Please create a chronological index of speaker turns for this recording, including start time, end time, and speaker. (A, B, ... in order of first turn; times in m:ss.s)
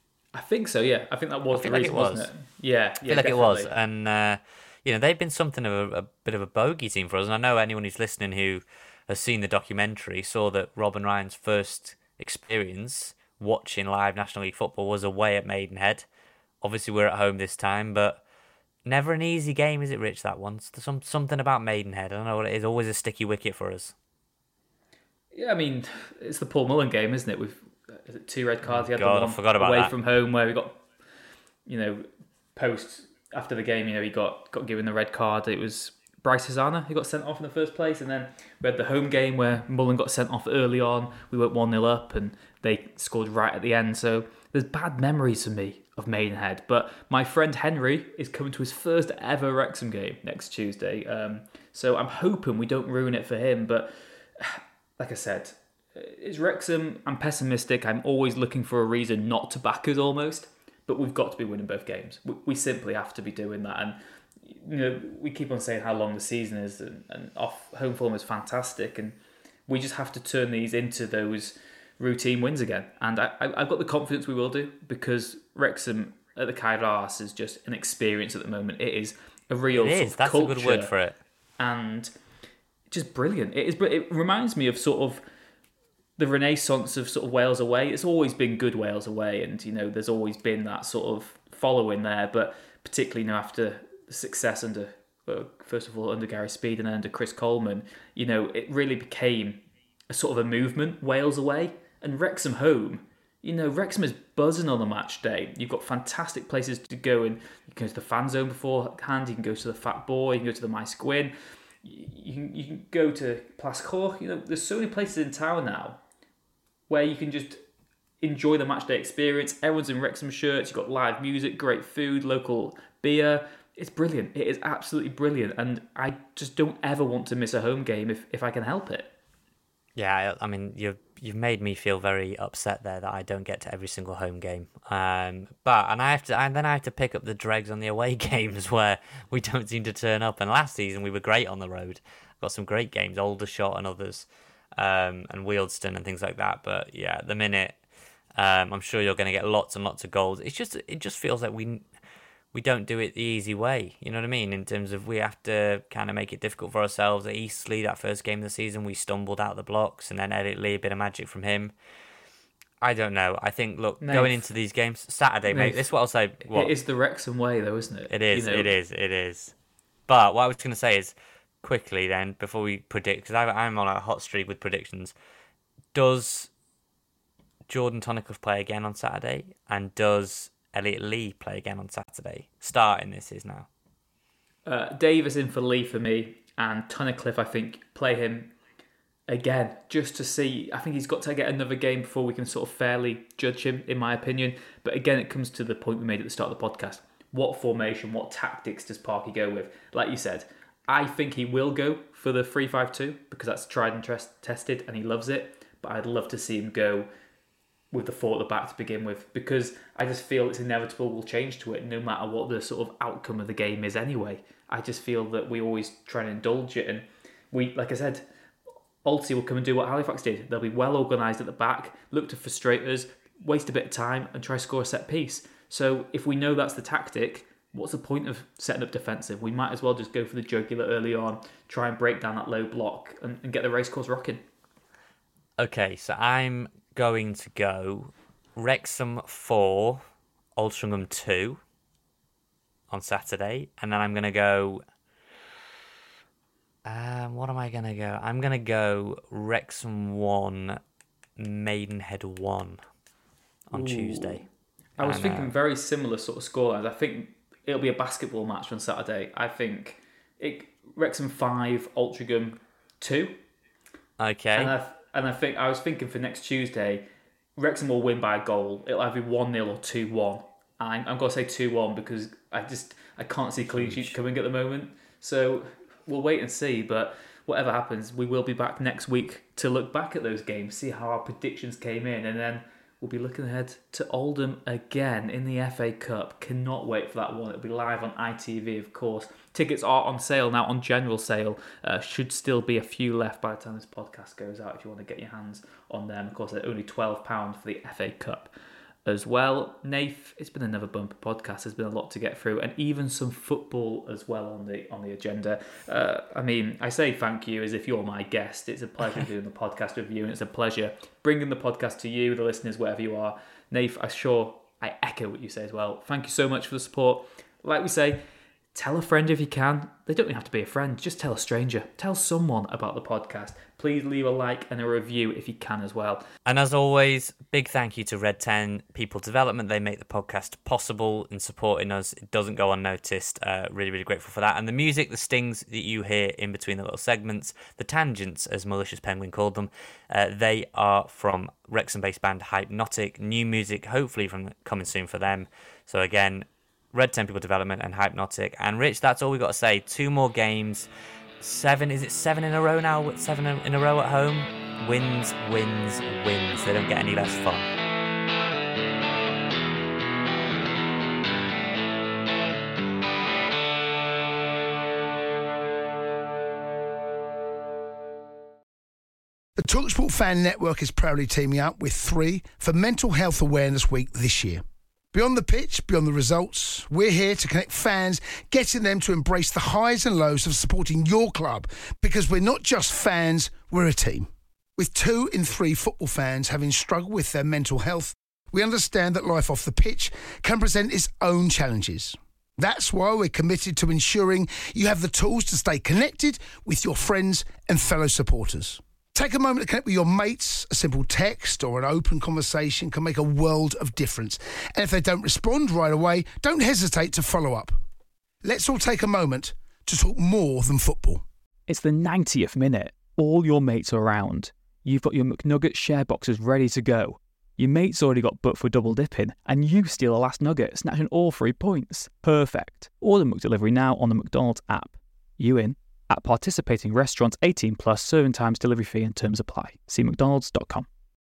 0:00.3-0:03.7 A
0:01.5-0:02.3 B
0:03.0-0:16.1 B
0:16.6-0:18.2 B
0:18.9-0:23.9 B
0:25.3-0:30.8 A
0:28.7-0:29.9 B
0:31.7-1:20.9 A
1:19.7-1:21.2 B
1:21.6-1:22.1 A
1:22.9-1:25.2 A
1:26.2-1:56.0 A
1:56.9-1:57.6 A
1:58.2-2:09.1 A
2:10.0-2:27.8 B
2:28.4-2:31.8 B
2:32.5-2:41.7 B
2:42.8-2:46.7 B
2:44.0-2:44.4 A
2:45.5-2:45.8 A
2:46.5-2:48.7 A
2:48.1-2:49.5 B
2:50.1-2:55.1 B
2:55.9-2:56.5 B
2:57.7-3:03.7 B
3:04.7-3:08.6 A
3:09.3-3:27.1 A
3:27.9-3:38.3 A
3:39.0-3:54.4 A
3:55.6-4:00.0 B
4:00.6-4:01.6 B
4:02.9-4:04.8 B
4:06.9-4:10.8 B
4:11.4-4:12.8 B
4:13.7-4:14.4 B
4:13.7-4:14.4 A
4:15.0-4:23.4 A
4:15.0-4:15.5 B
4:24.2-4:24.8 B
4:24.6-4:58.5 A
4:33.7-4:34.1 B
4:59.0-5:18.2 A
5:18.8-5:26.2 A
5:26.5-5:50.9 B
5:51.4-5:57.7 B
6:09.6-6:47.8 C
6:48.4-6:51.2 C
6:51.7-7:10.9 A